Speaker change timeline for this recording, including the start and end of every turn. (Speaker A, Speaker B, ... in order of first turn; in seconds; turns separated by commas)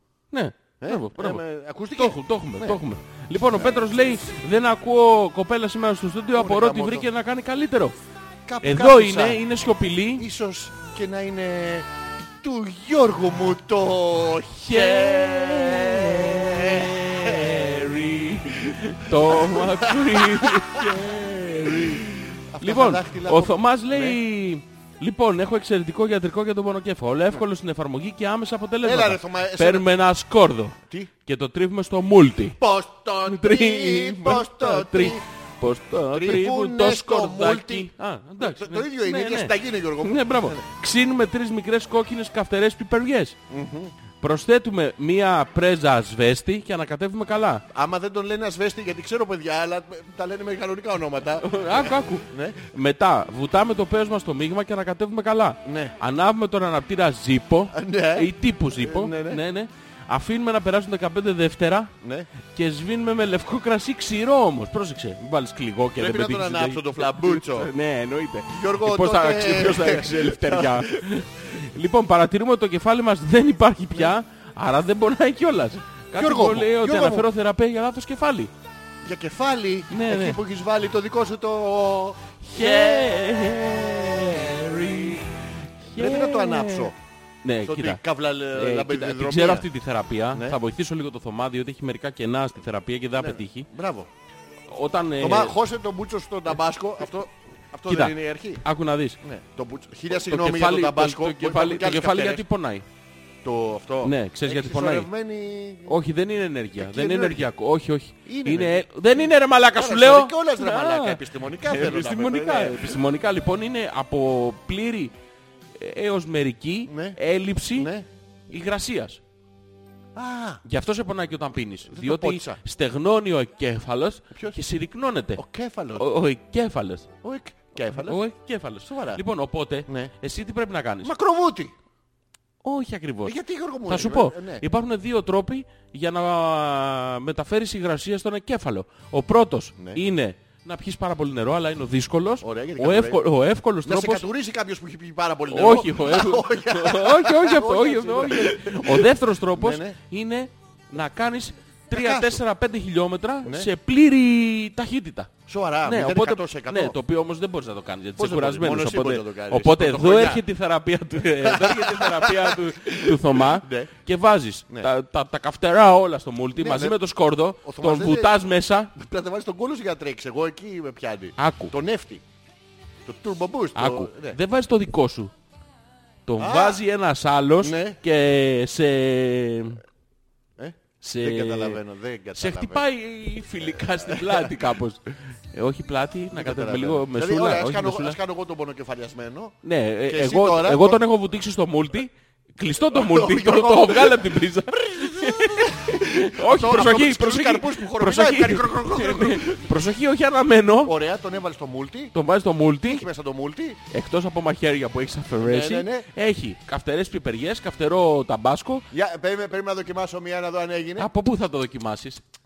Speaker A: 0.3-1.4, Speaker B: 0.8-2.8, Speaker A: 1.9-8.0, Speaker B: 3.6-4.1, Speaker B: 6.3-7.1, Speaker B: 8.5-9.4, Speaker A: 8.6-10.3, Speaker B: 10.2-11.9, Speaker B: 12.4-17.9, Speaker A: 14.6-32.6, Speaker B: 19.1-24.2, Speaker B: 28.8-29.9, Speaker B: 30.9-31.1, Speaker B: 32.6-35.2, Speaker A: 33.3-43.4, Speaker B: 36.1-40.6, Speaker B: 43.5-43.9, Speaker A: 44.2-47.6, Speaker B: 47.7-52.6, Speaker A: 51.4-61.9, Speaker B: 55.6-56.0, Speaker B: 57.7-59.4, Speaker B: 62.0-62.3, Speaker A: 62.5-78.5, Speaker B: 66.0-67.7, Speaker B: 68.5-71.0, Speaker B: 76.2-77.3, Speaker B: 79.0-85.2, Speaker A: 79.9-80.4, Speaker A: 82.5-85.2, Speaker A: 85.9-86.9, Speaker B: 86.0-87.0, Speaker A: 87.4-88.0, Speaker B: 87.6-89.7, Speaker A: 88.5-93.7, Speaker B: 90.3-90.6, Speaker B: 93.2-94.1, Speaker A: 94.7-95.6, Speaker B: 95.2-98.6, Speaker A: 97.9-99.2, Speaker B: 99.2-102.5, Speaker A: 100.1-102.8, Speaker B: 103.4-106.0, Speaker A: 104.0-105.1, Speaker A: 105.9-115.1, Speaker B: 106.8-107.5, Speaker B: 108.3-113.0, Speaker A: 115.8-117.9, Speaker B: 116.9-117.2, Speaker B: 117.8-118.1, Speaker A: 118.5-119.2, Speaker B: 120.2-120.6, Speaker A: 120.7-125.4, Speaker B: 121.9-122.6, Speaker B: 124.3-124.6, Speaker B: 125.4-126.1, Speaker A: 126.0-127.1, Speaker B: 127.2-128.2, Speaker A: 127.9-131.1, Speaker B: 128.8-129.2, Speaker B: 129.9-130.1, Speaker B: 131.0-131.7, Speaker A: 132.6-144.3, Speaker B: 133.2-134.6, Speaker B: 142.4-143.2, Speaker B: 143.8-150.0, Speaker A: 145.5-168.9, Speaker B: 151.9-152.4, Speaker B: 153.4-153.7, Speaker B: 155.5-157.0, Speaker B: 158.2-160.4, Speaker B: 161.3-163.9, Speaker B: 166.6-167.0, Speaker B: 167.6-168.4, Speaker B: 168.9-172.2, Speaker A: 171.4-171.7, Speaker B: 173.1-174.4, Speaker A: 173.8-175.3, Speaker A: 176.3-179.8, Speaker B: 176.4-176.8, Speaker B: 177.6-178.0, Speaker B: 180.6-182.9, Speaker A: 181.0-181.8, Speaker A: 182.3-188.2, Speaker B: 183.8-184.6, Speaker B: 186.3-191.0, Speaker A: 189.6-200.9, Speaker B: 192.9-199.7, Speaker B: 200.8-202.2, Speaker A: 202.1-203.1, Speaker B: 202.8-203.8, Speaker A: 203.9-208.9, Speaker B: 205.4-206.1, Speaker B: 208.9-211.1, Speaker A: 211.0-212.2